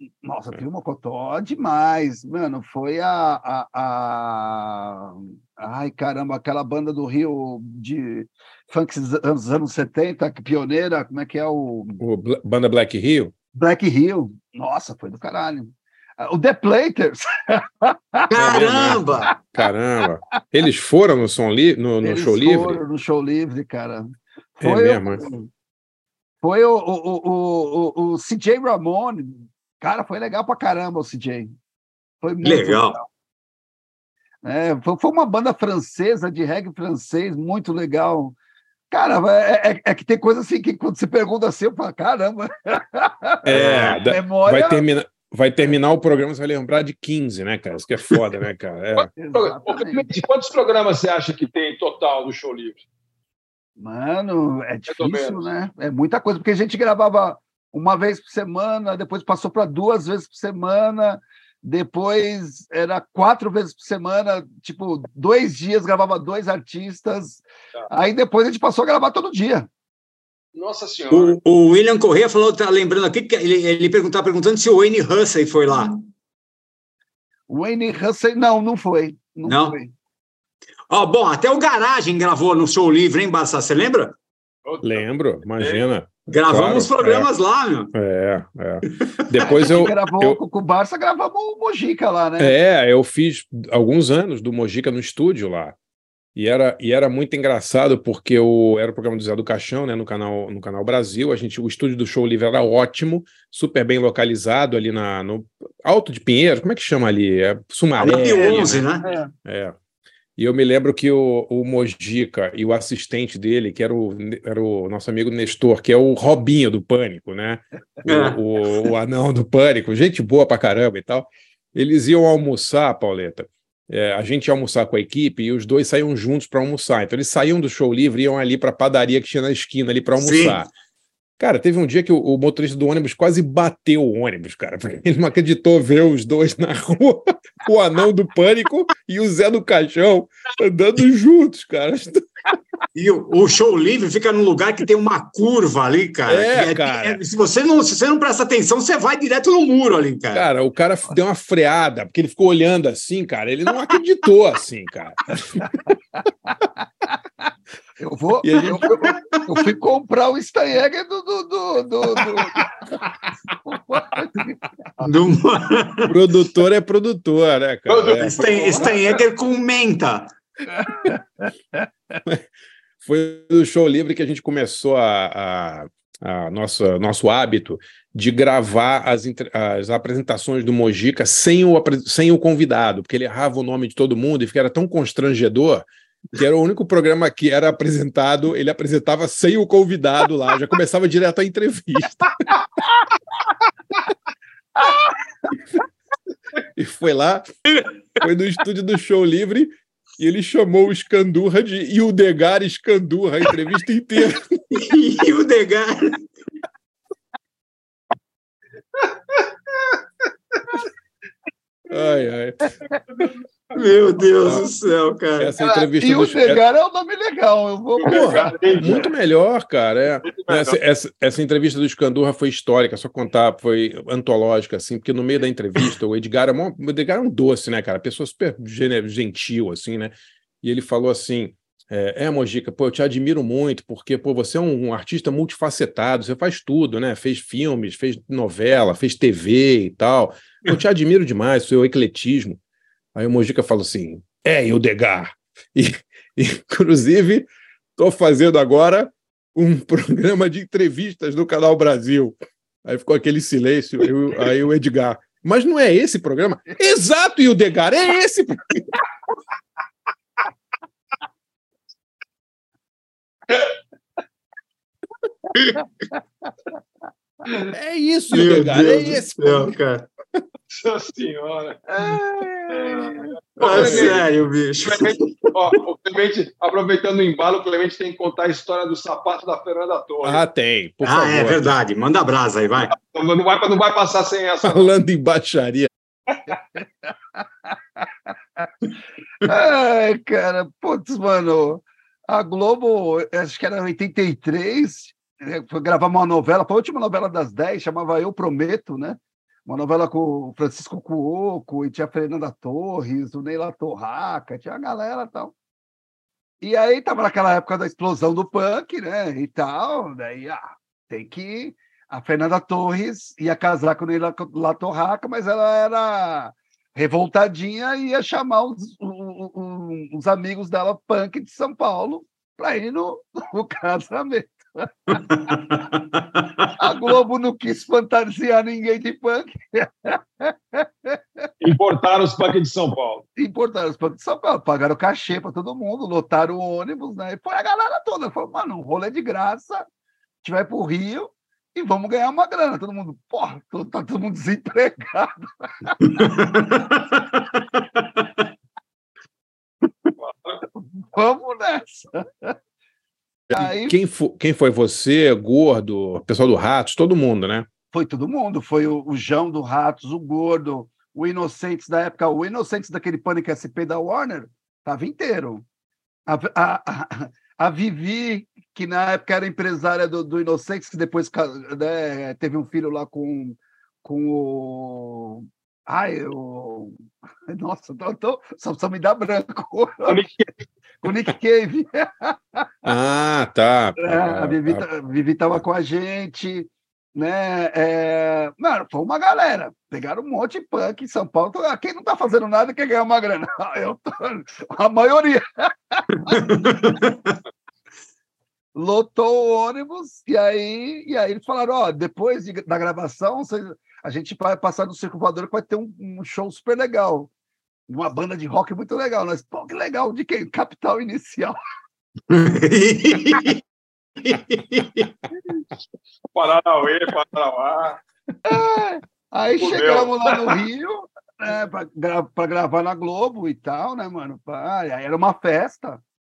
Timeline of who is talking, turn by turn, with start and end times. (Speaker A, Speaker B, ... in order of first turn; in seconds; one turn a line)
Speaker A: 0.2-12.0
Speaker B: 12.0-13.3
Speaker A: 13.5-18.3
Speaker C: 18.3-19.3
Speaker B: 18.3-22.8
Speaker A: 22.0-25.5
Speaker B: 24.6-25.2
Speaker A: 26.4-31.5
Speaker A: 32.2-32.9
Speaker C: 32.4-33.0
Speaker A: 34.4-38.4
Speaker A: 38.9-44.9
Speaker B: 43.5-49.1
Speaker C: 43.5-44.0
Speaker D: 49.0-52.9
Speaker A: 49.2-50.1
Speaker A: 53.8-69.7
Speaker D: 54.9-55.4
Speaker D: 70.5-71.4
Speaker C: 71.1-76.1
Speaker A: 77.5-79.9
Speaker C: 79.5-79.8
Speaker C: 80.9-84.2
Speaker D: 84.7-85.0
Speaker B: 84.8-87.3
Speaker D: 85.6-85.9
Speaker C: 86.3-87.9
Speaker B: 87.9-90.4
Speaker A: 89.5-92.5
Speaker B: 92.4-95.8
Speaker B: 96.3-108.9
Speaker C: 108.0-109.1
Speaker A: 108.4-109.3
Speaker B: 109.4-109.8
Speaker B: 110.4-130.7
Speaker C: 118.1-118.4
Speaker C: 130.2-130.7
Speaker B: 131.4-142.6
Speaker C: 142.9-150.4
Speaker B: 146.3-147.2
Speaker B: 150.3-155.7
Speaker A: 158.0-162.6
Speaker B: 158.4-158.8
Speaker A: 163.7-164.6
Speaker C: 165.0-166.1
Speaker B: 166.1-168.4
Speaker D: 167.9-169.2
Speaker C: 168.3-170.3
Speaker A: 170.7-172.2
Speaker B: 173.0-192.3
Speaker B: 196.8-197.5
Speaker B: 198.2-204.5
Speaker C: 204.7-206.3
Speaker B: 211.9-212.6
Speaker C: 213.8-215.5
Speaker B: 214.4-214.7
Speaker B: 215.4-216.6
Speaker A: 215.6-218.7
Speaker B: 218.0-242.6
Speaker D: 218.0-219.1
Speaker D: 220.2-220.8
Speaker B: 243.2-258.6
Speaker C: 265.6-265.8
Speaker B: 267.7-269.7
Speaker C: 268.3-270.1
Speaker D: 270.7-271.8
Speaker A: 271.9-273.2
Speaker D: 272.9-274.2
Speaker C: 273.6-275.4
Speaker B: 273.6-274.3
Speaker D: 274.8-280.4
Speaker B: 280.2-281.8
Speaker C: 281.0-282.9
Speaker D: 282.9-284.9
Speaker B: 284.6-285.9
Speaker A: 286.8-288.7
Speaker A: 289.4-305.5
Speaker A: 306.6-325.2
Speaker C: 325.1-326.5
Speaker A: 326.8-331.2
Speaker D: 331.6-333.2
Speaker A: 333.4-339.9
Speaker A: 340.4-345.9
Speaker C: 346.1-348.3
Speaker D: 350.2-350.6
Speaker A: 351.1-352.5
Speaker B: 353.5-357.7
Speaker A: 353.5-354.0
Speaker A: 357.9-365.6
Speaker A: 366.3-377.0
Speaker A: 377.5-380.1
Speaker D: 380.1-380.5
Speaker A: 381.0-382.6
Speaker B: 382.9-384.9
Speaker A: 384.0-396.4
Speaker C: 396.3-397.4
Speaker A: 398.8-407.3
Speaker A: 407.9-411.6
Speaker C: 412.3-413.6
Speaker C: 414.2-415.1
Speaker D: 416.4-418.0
Speaker A: 418.4-426.0
Speaker D: 419.6-420.6